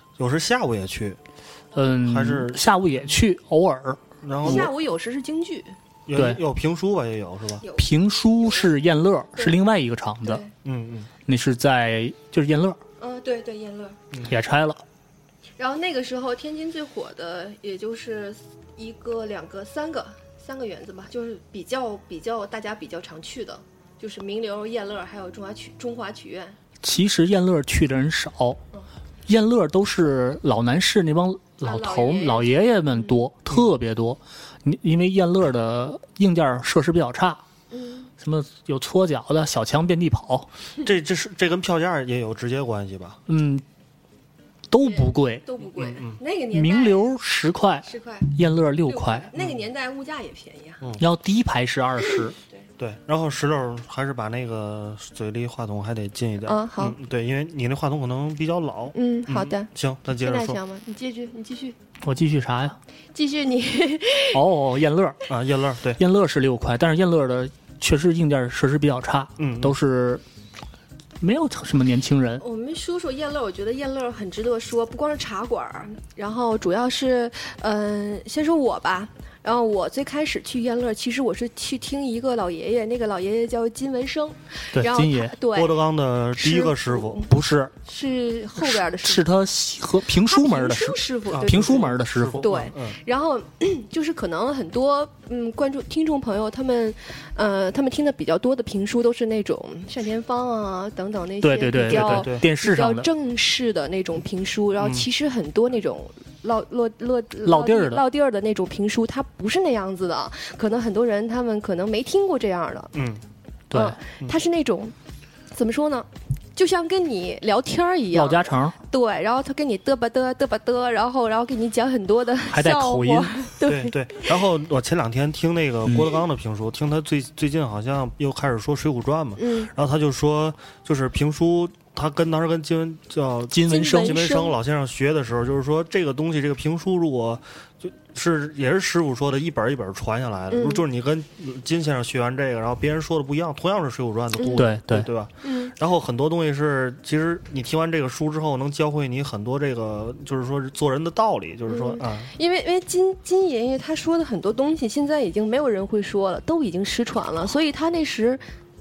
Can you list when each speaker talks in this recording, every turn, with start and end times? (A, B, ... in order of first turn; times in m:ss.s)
0:00.2-0:01.2 A
0:01.8-0:04.7 B
0:02.0-0:03.1 A
0:04.2-0:04.7 A
0:04.4-0:05.8 C
0:06.1-0:07.6 A
0:06.2-0:06.4 B
0:07.6-0:07.9 C
0:07.8-0:10.4 B
0:08.4-0:08.7 C
0:10.2-0:10.5 C
0:10.6-0:11.1 A
0:11.3-0:12.8 B
0:13.0-0:14.0 C
0:14.3-0:14.8 B
0:15.6-0:26.6 C
0:26.8-0:28.6 B
0:29.3-0:37.4 B
0:31.6-0:33.1 C
0:37.7-0:38.1 C
0:38.2-0:40.5 B
0:40.8-0:43.2 A
0:43.3-0:43.6 B
0:44.7-0:45.5 B
0:44.8-0:47.1 C
0:45.8-0:46.2 A
0:46.5-0:49.3 B
0:47.8-0:48.3 C
0:48.9-0:50.8 C
0:51.0-0:52.4 B
0:52.8-1:00.6 A
0:56.5-0:57.0 C
0:58.9-0:59.7 C
1:00.2-1:01.8 C
1:02.0-1:02.8 B
1:03.1-1:04.4 C
1:04.3-1:05.2 B
1:05.3-1:06.0 A
1:06.0-1:10.2 B
1:09.4-1:09.8 A
1:11.2-1:12.4 B
1:12.4-1:25.8 C
1:24.7-1:25.3 B
1:25.5-1:27.2 A
1:26.4-1:27.3 C
1:27.3-1:27.7 B
1:27.8-1:29.3 C
1:28.6-1:32.5 B
1:30.2-1:52.9 C
1:31.3-1:33.0 A
1:41.4-1:43.1 B
1:41.9-1:42.4 A
1:44.8-1:45.1 A
1:47.4-1:48.0 B
1:52.9-1:53.2 A
1:53.7-1:54.0 B
1:53.7-1:54.9 C
1:55.5-2:04.3 C
1:58.1-1:58.8 B
2:02.5-2:03.5 B
2:03.6-2:32.3 A
2:05.9-2:06.1 B
2:09.4-2:09.7 C
2:13.5-2:14.2 B
2:13.7-2:14.6 C
2:20.5-2:20.8 C
2:24.4-2:24.7 C
2:24.6-2:25.1 B
2:25.4-2:25.7 C
2:31.7-2:38.4 C